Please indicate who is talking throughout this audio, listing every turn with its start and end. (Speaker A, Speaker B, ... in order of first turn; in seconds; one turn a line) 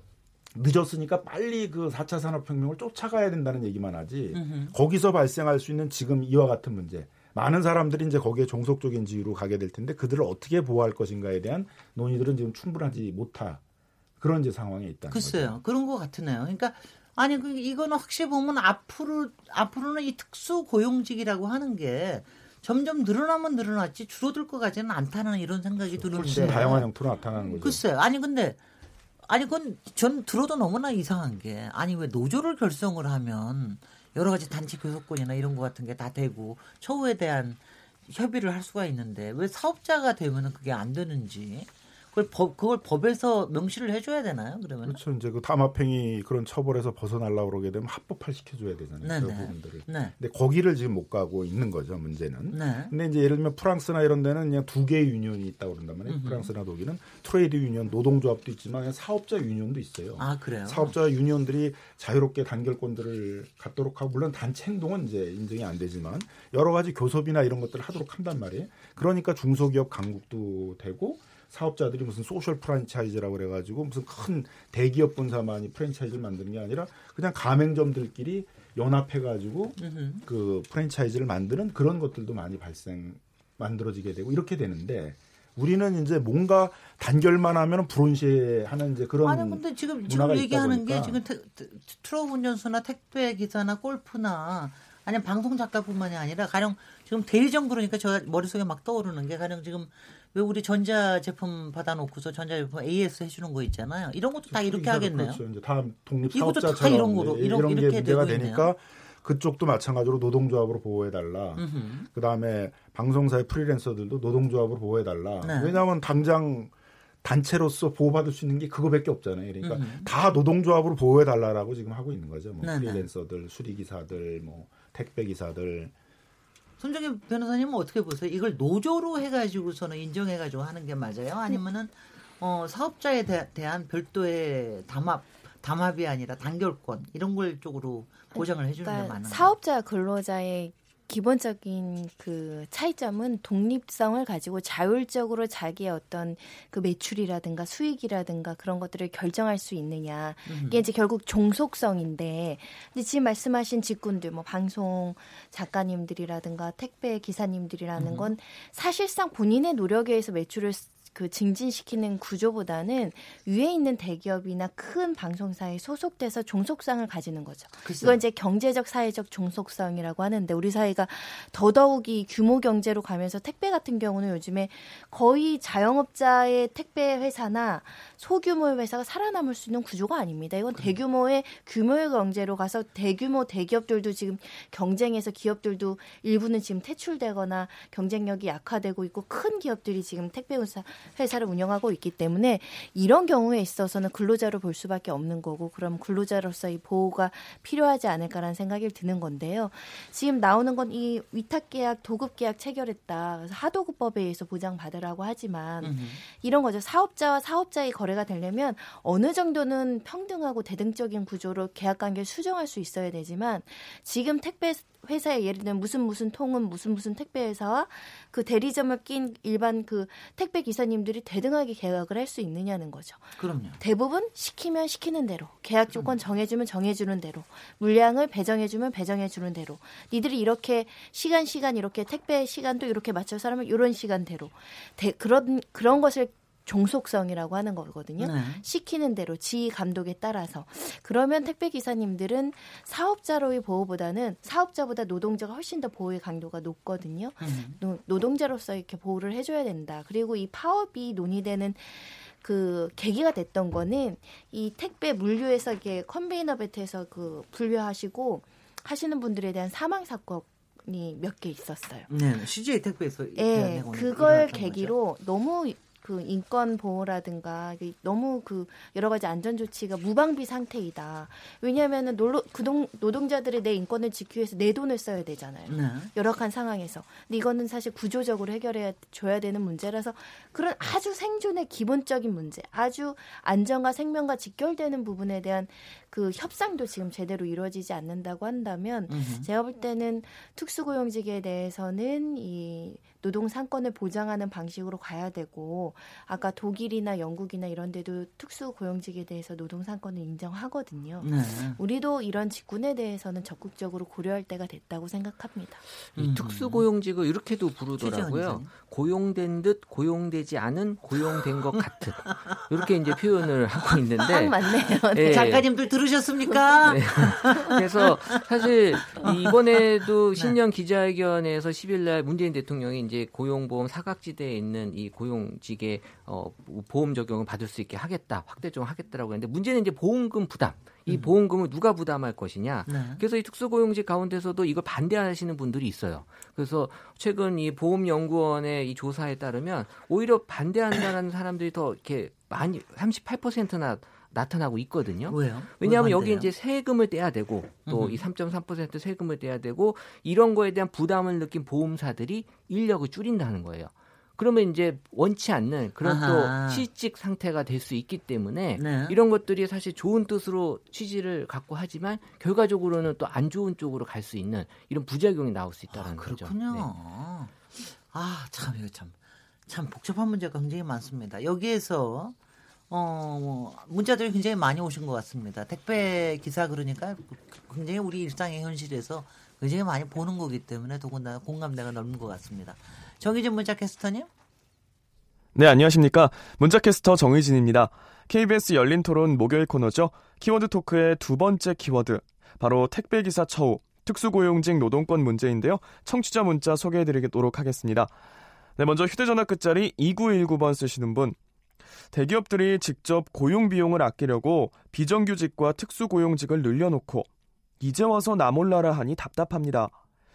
Speaker A: 0.5-13.6
Speaker B: 4.3-4.7
Speaker A: 14.2-15.6
Speaker B: 15.1-28.6
Speaker A: 25.9-27.8
Speaker B: 29.3-45.0
Speaker A: 44.8-91.2
Speaker B: 49.0-50.1
Speaker B: 52.5-52.9
Speaker B: 56.1-56.5
Speaker B: 60.2-60.9
Speaker B: 79.8-80.2
Speaker B: 89.2-105.4
Speaker A: 104.5-116.7
Speaker B: 106.3-108.7
Speaker B: 111.6-112.1
Speaker B: 115.4-115.8
Speaker A: 117.2-125.9
Speaker B: 119.6-120.1
Speaker B: 122.6-123.1
Speaker B: 126.8-139.5
Speaker C: 138.3-262.1
Speaker B: 150.5-150.8
Speaker B: 158.0-158.3
Speaker B: 167.8-168.2
Speaker B: 205.8-206.2
Speaker B: 223.4-223.8
Speaker B: 238.2-238.6
Speaker B: 247.4-247.8
Speaker B: 262.1-264.9
Speaker C: 263.4-305.8
Speaker B: 275.7-276.1
Speaker B: 289.1-289.5
Speaker B: 301.2-301.8
Speaker D: 306.1-314.6
Speaker B: 306.2-306.9
Speaker B: 308.0-308.7
Speaker B: 311.2-314.1
Speaker C: 314.2-315.6
Speaker D: 315.1-315.6
Speaker B: 315.2-320.6
Speaker D: 316.8-366.9
Speaker B: 332.9-333.2
Speaker B: 345.3-346.5
Speaker B: 347.9-348.2
Speaker B: 356.0-356.9
Speaker B: 358.8-359.2
Speaker B: 365.9-369.1
Speaker B: 369.7-372.3
Speaker B: 372.9-384.3
Speaker E: 385.5-398.1
Speaker E: 398.8-401.4
Speaker E: 402.1-407.3
Speaker E: 407.8-409.9